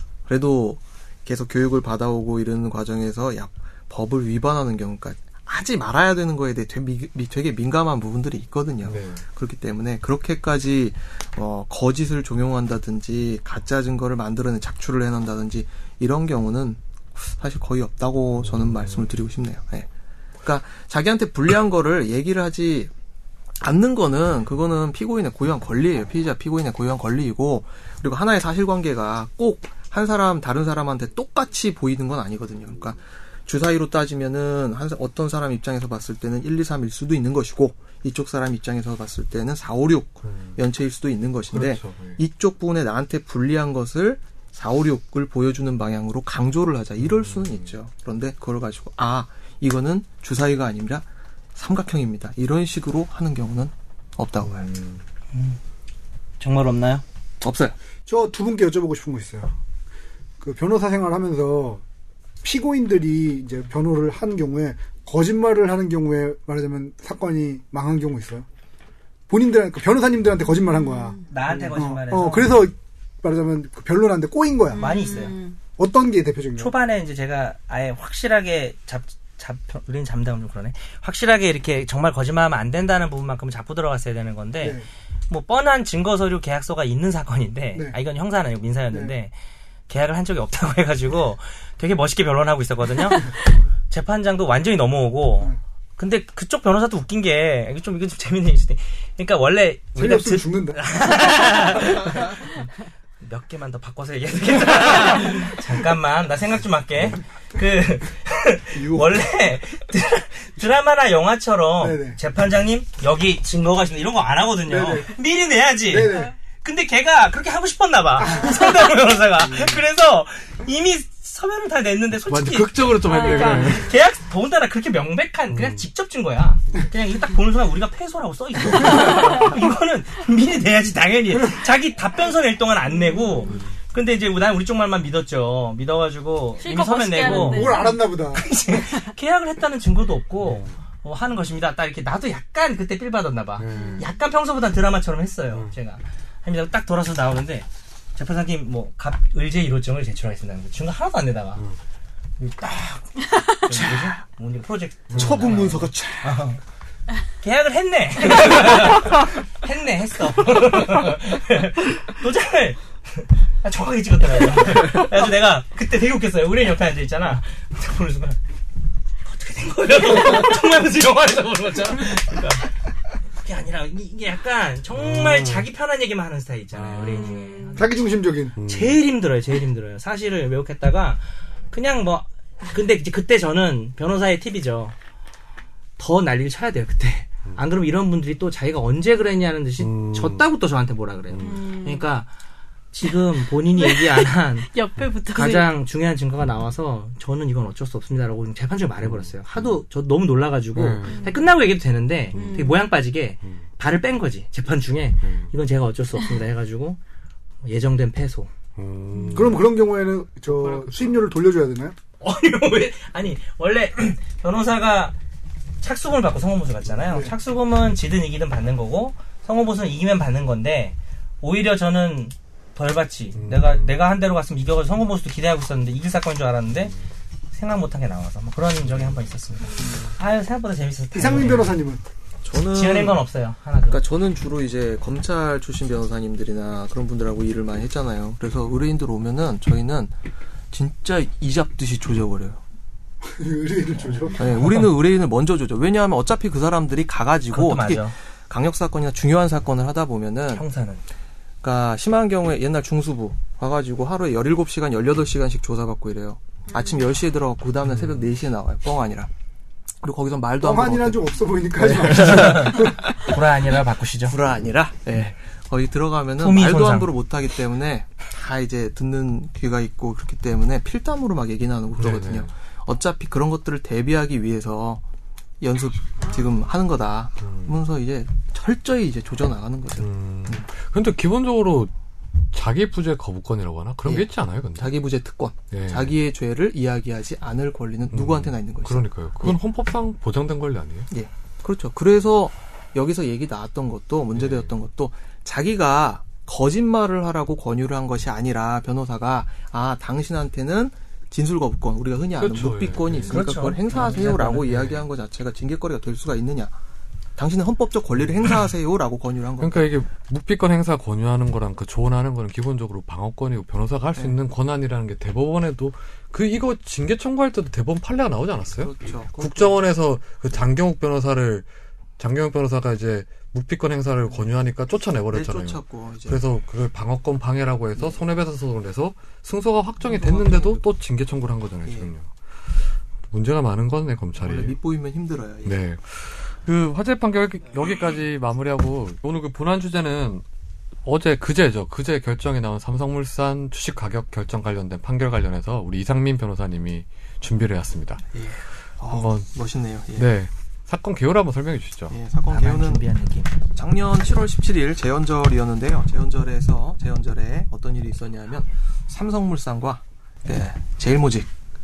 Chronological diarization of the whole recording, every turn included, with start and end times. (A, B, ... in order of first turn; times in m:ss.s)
0:00.3-0:19.9 A
0:08.8-0:09.2 B
0:18.4-0:19.1 B
0:20.4-0:22.9 A
0:23.6-0:54.7 A
0:40.2-0:40.6 B
0:41.5-0:42.2 B
0:47.0-0:47.7 B
0:54.4-0:55.0 B
0:55.3-0:55.6 C
0:56.4-0:57.0 C
0:57.4-0:57.7 A
0:58.1-0:59.5 D
1:00.4-1:01.8 D
1:02.4-1:08.4 D
1:09.3-1:11.2 D
1:10.9-1:11.2 E
1:11.3-1:12.7 C
1:11.7-1:14.9 D
1:14.7-1:15.6 E
1:14.8-1:15.4 C
1:15.8-1:16.7 D
1:16.6-1:29.3 C
1:24.6-1:24.9 D
1:29.9-1:42.6 C
1:40.0-1:40.8 D
1:43.2-2:31.6 C
1:48.8-1:49.1 D
1:51.8-1:52.2 D
1:54.7-1:55.2 D
1:55.9-1:56.3 D
1:58.2-1:58.8 D
2:02.3-2:03.9 B
2:03.0-2:03.9 E
2:05.5-2:05.8 B
2:13.1-2:13.5 E
2:16.6-2:18.0 E
2:17.2-2:18.4 D
2:20.4-2:20.7 B
2:23.6-2:24.1 B
2:23.7-2:24.1 E
2:32.4-2:36.6 C
2:35.1-2:35.6 B
2:35.1-2:36.4 A
2:37.4-2:48.4 C
2:49.2-2:52.7 C
2:53.4-3:04.9 C
2:54.9-2:55.6 B
2:56.7-2:57.4 B
2:57.1-2:57.8 E
2:57.8-2:58.5 D
2:58.6-2:59.0 B
3:06.0-3:12.3 C
3:09.8-3:10.4 B
3:11.3-3:11.7 B
3:11.4-3:12.1 E
3:12.9-3:14.7 C
3:13.7-3:15.7 E
3:15.2-3:27.0 C
3:19.0-3:19.8 B
3:20.7-3:21.4 B
3:21.0-3:21.4 E
3:22.3-3:22.7 B
3:22.3-3:22.8 E
3:25.2-3:25.5 B
3:27.6-3:28.5 C
3:28.8-3:29.8 B
3:29.1-3:29.5 E
3:29.3-3:32.0 D
3:30.4-3:31.2 B
3:32.2-3:35.2 C
3:35.8-3:46.9 C
3:37.1-3:37.3 D
3:43.4-3:43.9 B
3:47.5-3:51.8 C
3:51.1-3:52.0 D
3:52.4-3:53.2 A
3:52.7-3:54.0 C
3:53.9-4:00.1 A
4:00.7-4:02.6 A
4:03.2-4:04.6 D
4:04.4-4:10.6 A
4:07.5-4:08.1 C
4:10.5-4:11.0 C
4:11.6-4:19.3 A
4:17.8-4:18.3 B
4:20.0-4:23.4 A
4:20.6-4:23.0 D
4:22.1-4:24.4 C
4:24.2-4:35.0 A
4:26.4-4:27.1 C
4:32.0-4:32.5 B
4:35.6-4:40.6 A
4:37.4-4:37.8 B
4:40.0-4:41.9 B
4:42.5-4:45.0 B
4:44.0-4:49.6 A
4:45.7-4:46.1 B
4:48.1-4:51.1 B
4:51.1-5:06.8 A
4:54.3-4:54.7 B
5:02.4-5:05.1 B
5:03.3-5:04.7 C
5:07.4-5:09.9 A
5:08.1-5:08.6 B
5:09.6-5:21.6 B
5:18.8-5:19.8 A
5:22.2-5:32.3 B
5:25.3-5:26.4 A
5:30.0-5:30.8 A
5:31.8-5:32.1 A
5:33.3-5:34.8 B
5:34.4-5:35.8 A
5:35.6-5:40.4 B
5:41.0-5:48.2 B
5:48.3-5:50.3 A
5:49.1-5:49.5 B
5:50.1-5:52.2 B
5:52.1-5:53.1 A
5:52.5-5:53.5 C
5:53.7-6:01.5 A